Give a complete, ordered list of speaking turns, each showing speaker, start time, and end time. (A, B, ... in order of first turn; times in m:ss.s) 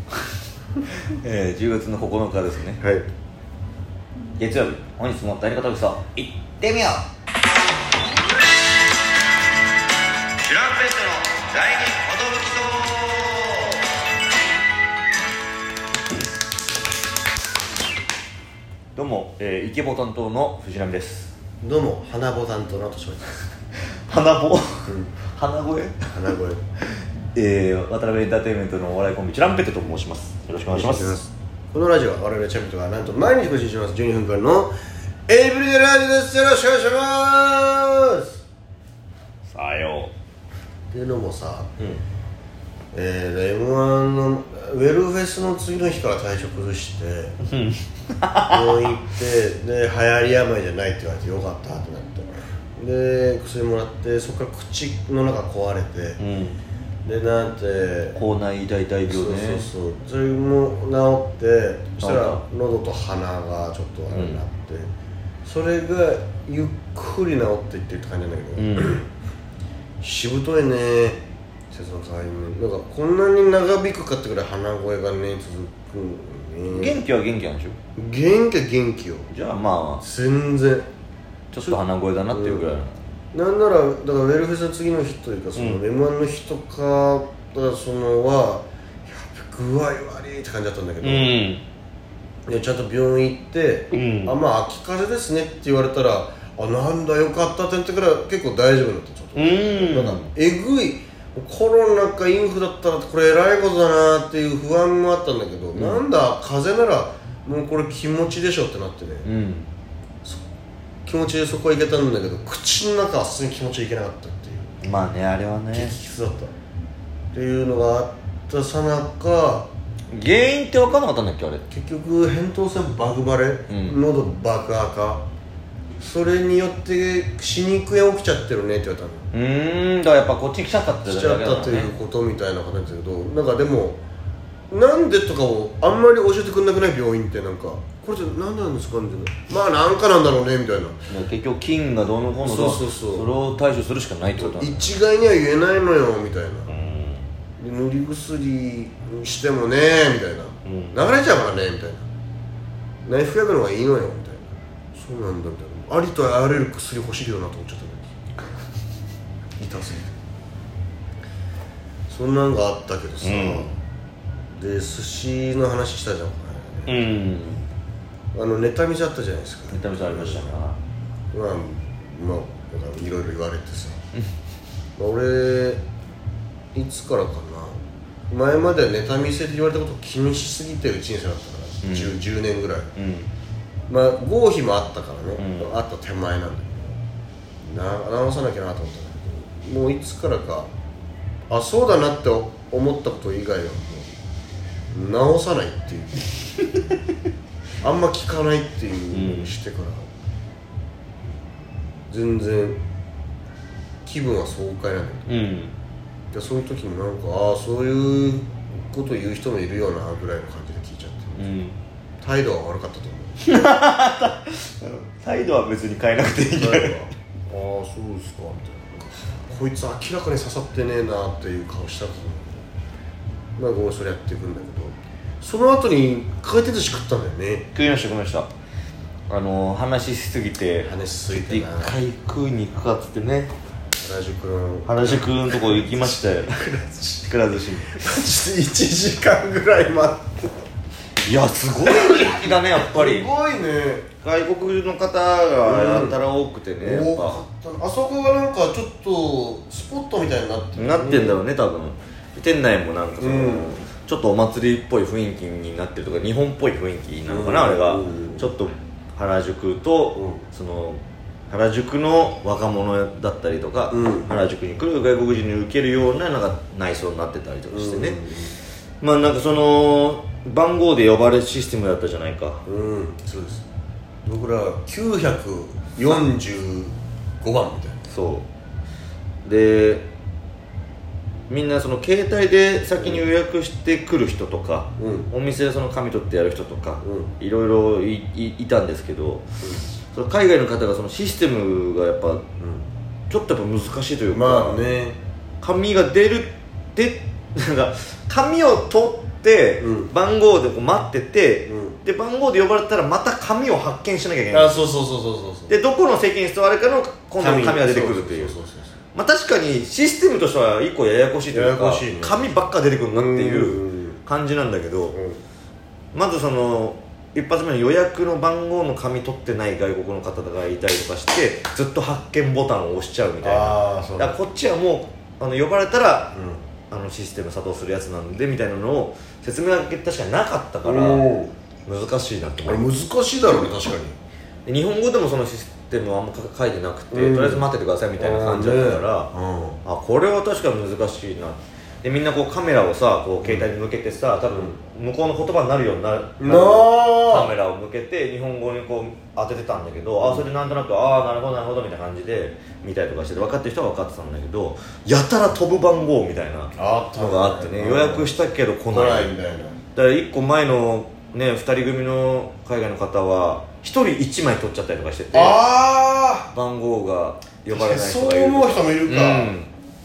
0:01.1-0:02.8 A
0:02.8-0:03.0 B
0:04.4-0:07.1 A
0:10.4-0:13.9 A
0:18.9-0:21.3 A
0:21.6-0:23.5 B
0:24.1-0:26.0 A
0:24.9-0:25.1 B
0:26.1-0:26.6 B
0:27.3-0:31.2 A
0:30.7-0:34.7 B
0:35.3-0:38.4 B
0:39.4-0:40.1 A
0:40.9-0:41.7 B
0:42.9-0:47.4 B
0:47.4-0:48.9 A
0:48.5-0:56.2 B
0:56.2-0:56.6 A
0:57.0-0:58.2 B
0:58.2-0:59.7 A
0:59.1-1:04.9 B
1:02.0-1:02.4 A
1:04.1-1:04.4 A
1:05.4-1:09.1 B
1:08.6-1:09.0 A
1:10.0-1:17.0 B
1:16.7-1:17.8 A
1:18.0-1:19.3 B
1:19.3-1:20.0 A
1:20.0-1:20.8 B
1:21.5-1:23.0 A
1:22.3-1:22.6 B
1:23.3-1:31.3 B
1:25.6-1:25.8 A
1:31.0-1:31.6 A
1:32.5-1:49.3 B
1:33.9-1:34.4 A
1:39.3-1:40.3 A
1:45.7-1:46.0 A
1:49.2-1:49.7 A
1:51.0-1:54.8 B
1:54.8-1:56.0 A
1:55.7-1:56.5 B
1:57.3-1:59.7 B
2:00.1-2:01.6 A
2:01.7-2:05.2 B
2:03.7-2:04.0 A
2:06.0-2:09.3 B
2:09.3-2:11.9 A
2:11.0-2:14.0 B
2:14.7-2:21.0 B
2:21.1-2:24.9 A
2:22.4-2:23.3 B
2:24.4-2:26.7 B
2:26.7-2:27.3 A
2:27.6-2:32.0 B
2:30.6-2:31.0 A
2:33.0-2:38.1 B
2:39.6-2:40.1 B
2:42.1-2:43.7 B
2:43.2-2:43.7 A
2:44.6-2:47.0 B
2:46.9-2:47.7 A
2:48.3-2:50.5 B
2:49.7-2:50.8 A
2:51.3-2:54.0 B
2:55.0-2:55.8 B
2:56.7-2:57.8 B
2:58.3-3:02.9 B
3:01.8-3:02.2 A
3:03.0-3:03.3 A
3:03.9-3:07.0 B
3:05.4-3:05.7 A
3:07.6-3:10.7 B
3:11.5-3:14.1 B
3:14.9-3:16.3 B
3:17.8-3:20.1 B
3:19.1-3:19.5 A
3:22.1-3:22.8 B
3:24.0-3:25.3 B
3:25.3-3:25.7 A
3:26.3-3:31.5 B
3:31.4-3:31.8 A
3:32.2-3:33.4 B
3:33.4-3:37.0 A
3:36.5-3:42.7 B
3:43.6-3:47.7 B
3:47.7-3:48.5 A
3:49.3-3:53.5 A
3:50.8-3:52.0 B
3:54.0-3:57.3 B
3:54.8-3:56.5 A
3:57.2-3:58.0 A
3:57.8-4:00.5 B
4:01.2-4:03.3 A
4:01.8-4:04.1 B
4:04.2-4:07.4 A
4:05.6-4:06.2 B
4:06.8-4:11.4 B
4:10.8-4:28.2 A
4:13.2-4:13.7 B
4:17.3-4:18.5 B
4:20.2-4:20.4 B
4:23.9-4:24.3 B
4:27.7-4:28.6 B
4:29.0-4:32.6 A
4:32.6-4:33.6 B
4:34.2-4:38.0 B
4:38.1-4:38.5 A
4:39.4-4:40.0 A
4:41.5-4:49.4 A
4:45.0-4:45.3 B
4:47.0-4:47.3 B
4:49.6-4:49.9 B
4:50.1-4:52.4 A
4:52.6-4:52.9 B
4:53.3-4:54.8 A
4:54.3-4:55.2 B
4:55.6-5:04.8 A
4:59.8-5:00.1 B
5:01.7-5:02.0 B
5:04.5-5:05.7 B
5:05.7-5:08.5 A
5:07.4-5:08.9 B
5:09.1-5:15.2 A
5:11.5-5:12.4 B
5:13.1-5:14.2 B
5:15.1-5:15.4 B
5:16.1-5:26.3 A
5:23.4-5:24.4 B
5:26.3-5:26.6 B
5:26.9-5:31.3 A
5:30.8-5:31.5 B
5:31.8-5:32.8 A
5:32.6-5:34.2 B
5:34.6-5:39.3 A
5:37.1-5:37.6 B
5:38.2-5:39.8 B
5:39.8-5:59.3 A
5:43.4-5:43.7 B
5:44.5-5:44.8 B
5:46.4-5:47.5 B
5:56.8-5:58.3 B
5:58.9-5:59.8 B
5:59.9-6:05.6 A
6:05.3-6:06.5 B
6:06.5-6:09.7 A
6:07.7-6:09.5 B